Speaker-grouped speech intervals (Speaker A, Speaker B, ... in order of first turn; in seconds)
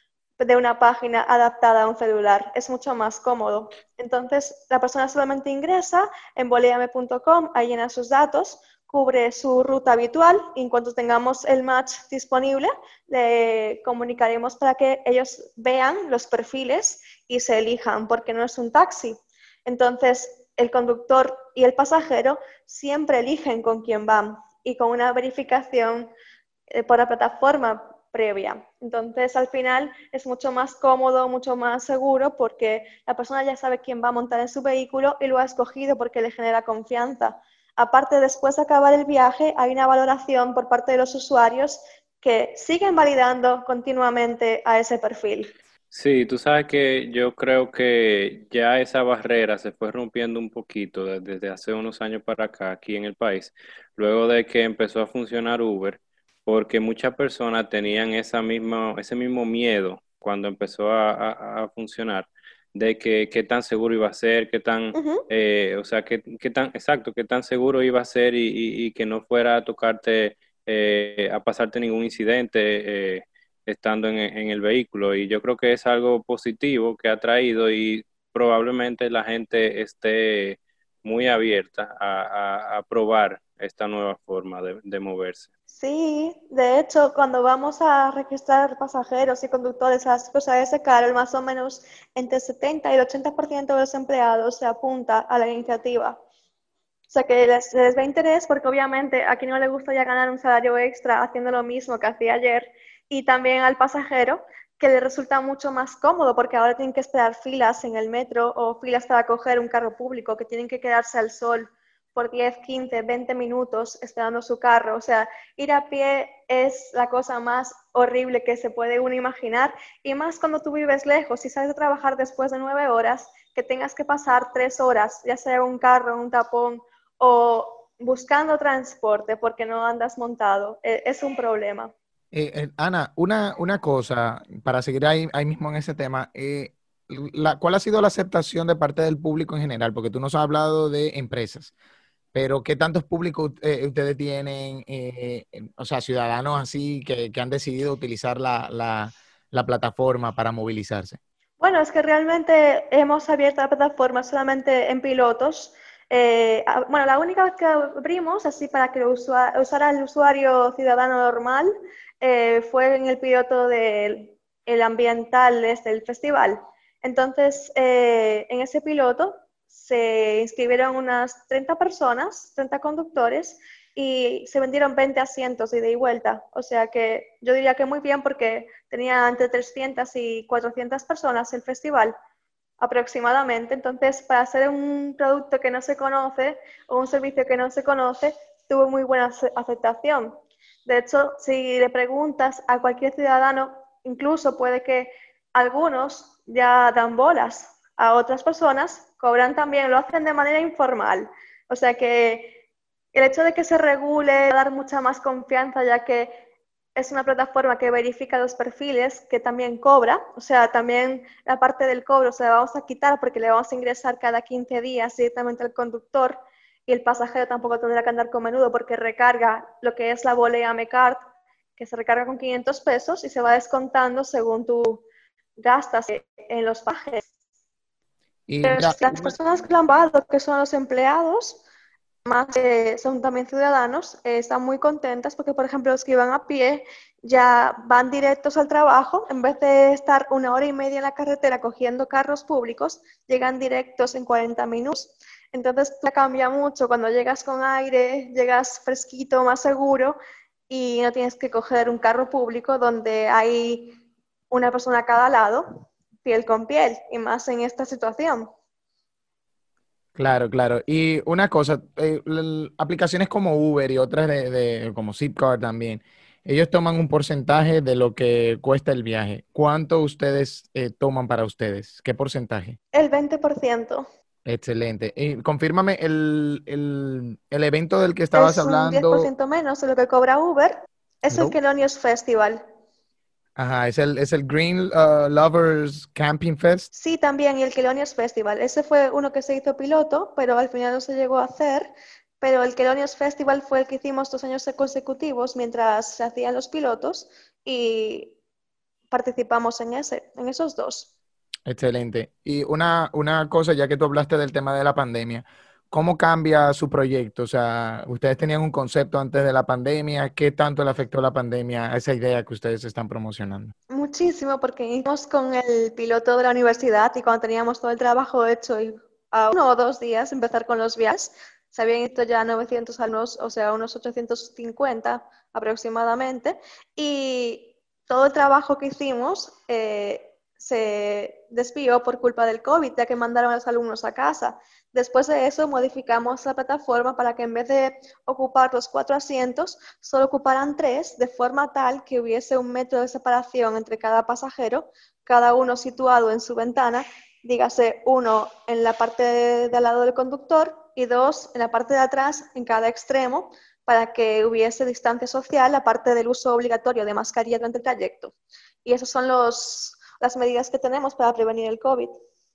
Speaker A: 0.4-26.1, 26.7-45.5, 65.0-65.3, 85.7-96.2, 97.1-131.9, 151.6-182.2, 182.8-202.6, 203.1-206.4, 207.0-221.2, 221.8-225.0, 225.6-227.3, 228.6-231.6, 232.2-250.2, 250.7-254.0, 254.5-258.5, 272.9-274.1, 278.4-282.6, 286.9-298.4, 299.1-301.1, 313.9-358.3, 358.9-362.1
Speaker B: 45.9-85.5
Speaker C: 132.3-141.7, 142.3-151.2, 228.5-229.3, 260.2-272.8, 274.4-279.3, 281.3-281.6, 283.6-286.9, 301.7-313.7